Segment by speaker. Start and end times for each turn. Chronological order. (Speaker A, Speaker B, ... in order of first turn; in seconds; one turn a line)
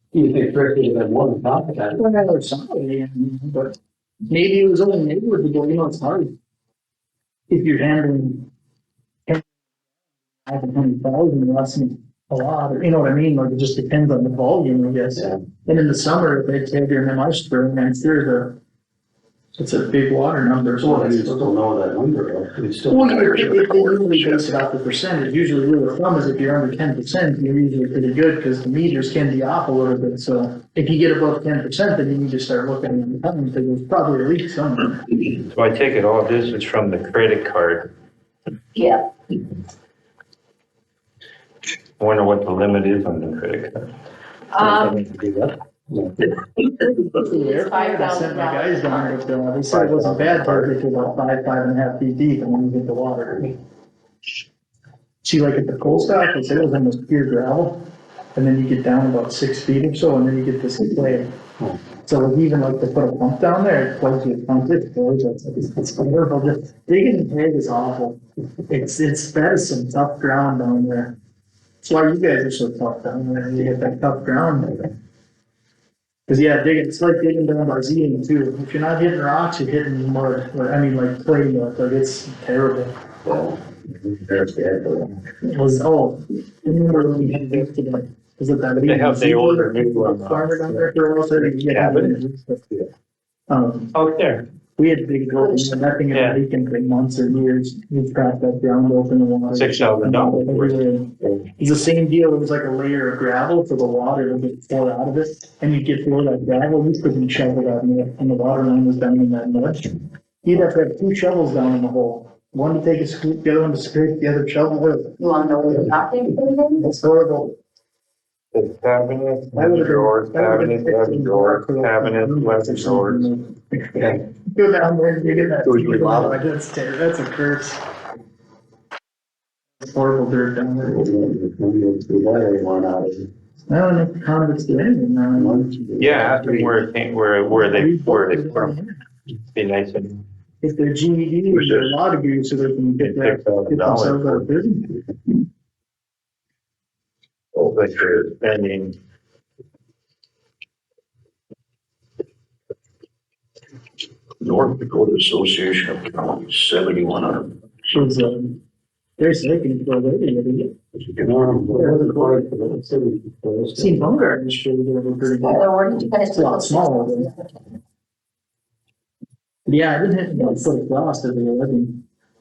Speaker A: 0.1-2.0
Speaker B: 1.9-3.8
Speaker B: 4.3-6.3
Speaker B: 7.5-8.5
Speaker B: 10.4-18.6
Speaker B: 19.6-21.5
Speaker A: 20.8-23.3
Speaker B: 22.9-35.2
Speaker C: 23.0-24.5
Speaker D: 35.4-37.9
Speaker E: 38.7-39.0
Speaker D: 42.0-43.9
Speaker E: 44.5-45.0
Speaker D: 44.6-45.2
Speaker A: 45.0-46.2
Speaker E: 46.8-49.2
Speaker B: 47.2-53.5
Speaker A: 50.0-50.3
Speaker B: 55.2-57.8
Speaker B: 58.3-61.3
Speaker B: 62.0-71.1
Speaker B: 71.8-74.9
Speaker B: 76.3-82.9
Speaker A: 83.2-85.2
Speaker B: 85.4-92.6
Speaker D: 88.8-92.2
Speaker B: 93.5-93.9
Speaker D: 93.9-94.5
Speaker B: 94.8-115.2
Speaker E: 95.4-95.8
Speaker D: 96.1-96.4
Speaker D: 99.5-101.5
Speaker E: 115.2-116.9
Speaker B: 116.8-117.5
Speaker D: 118.5-123.3
Speaker B: 119.5-127.8
Speaker A: 123.9-124.2
Speaker A: 125.4-126.4
Speaker B: 129.8-131.1
Speaker A: 130.8-133.3
Speaker B: 133.7-135.7
Speaker A: 135.3-136.7
Speaker D: 136.0-138.8
Speaker B: 137.5-138.9
Speaker D: 139.5-140.2
Speaker B: 140.6-145.0
Speaker C: 141.5-141.9
Speaker D: 143.0-144.5
Speaker D: 147.5-149.0
Speaker C: 154.4-157.5
Speaker B: 157.9-158.6
Speaker B: 159.2-160.7
Speaker C: 160.9-161.4
Speaker A: 161.2-164.1
Speaker B: 161.7-162.4
Speaker B: 163.8-167.4
Speaker E: 165.4-167.4
Speaker B: 169.7-172.0